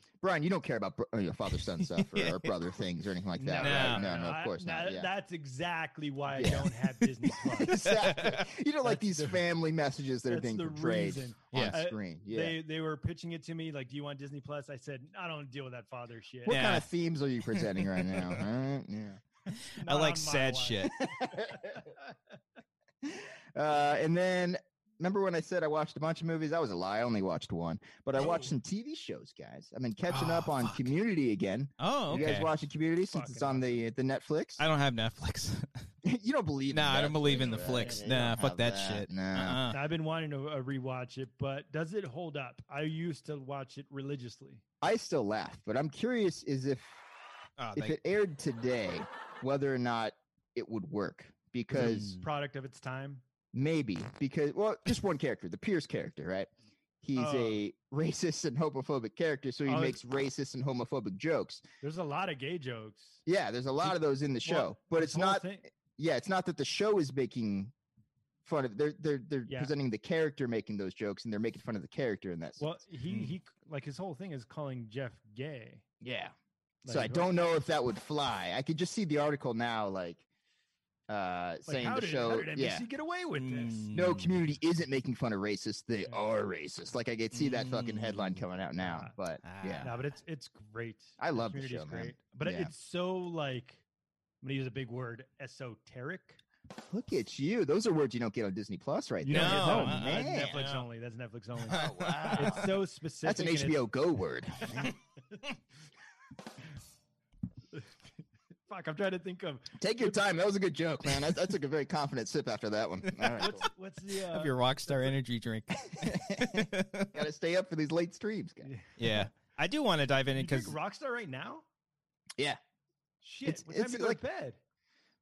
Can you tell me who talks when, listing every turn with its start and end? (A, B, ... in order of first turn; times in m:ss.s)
0:00.2-0:05.1 A
0:01.7-0:02.7 B
0:03.4-0:07.8 C
0:03.6-0:04.1 B
0:06.3-0:06.8 A
0:07.5-0:12.6 A
0:07.7-0:08.4 B
0:08.8-0:09.4 C
0:10.3-0:16.6 C
0:16.4-0:19.2 A
0:16.5-0:16.9 B
0:17.5-0:18.4 B
0:19.5-0:21.0 B
0:19.7-0:22.1 C
0:21.0-0:21.8 A
0:23.0-0:34.6 A
0:28.2-0:28.5 C
0:30.1-0:30.9 B
0:31.8-0:32.5 B
0:32.1-0:32.5 C
0:33.0-0:33.8 C
0:34.6-0:35.7 B
0:36.0-0:39.6 A
0:36.7-0:39.8 B
0:37.3-0:38.0 C
0:39.7-0:44.6 C
0:44.8-0:47.0 A
0:47.6-0:48.0 B
0:47.7-0:52.2 A
0:51.7-0:53.2 C
0:51.8-0:52.2 B
0:53.5-0:56.5 A
0:57.0-1:01.6 A
0:57.2-0:57.6 C
0:59.6-1:00.0 C
1:01.8-1:03.2 C
1:03.2-1:07.7 A
1:04.4-1:05.6 C
1:08.4-1:12.6 A
1:09.5-1:09.7 C
1:12.6-1:15.8 C
1:16.0-1:16.3 A
1:16.8-1:17.3 C
1:16.9-1:20.2 A
1:21.1-1:22.8 A
1:21.6-1:23.9 C
1:23.4-1:24.4 B
1:23.9-1:29.9 A
1:27.3-1:28.4 B
1:28.8-1:29.1 C
1:29.4-1:30.1 B
1:29.8-1:33.8 C
1:31.2-1:32.7 A
1:34.4-1:36.4 C
1:36.8-1:40.6 A
1:39.2-1:43.8 C
1:39.3-1:40.8 B
1:41.7-1:42.7 B
1:41.7-1:45.0 A
1:48.6-1:50.2 C
1:49.8-1:53.6 A
1:53.1-1:53.6 B
1:53.4-1:55.1 C
1:54.3-1:57.2 B
1:55.9-1:58.7 A
1:58.6-1:59.2 C
1:59.0-2:00.7 B
2:00.4-2:01.6 C
2:03.2-2:04.6 C
2:03.4-2:04.2 A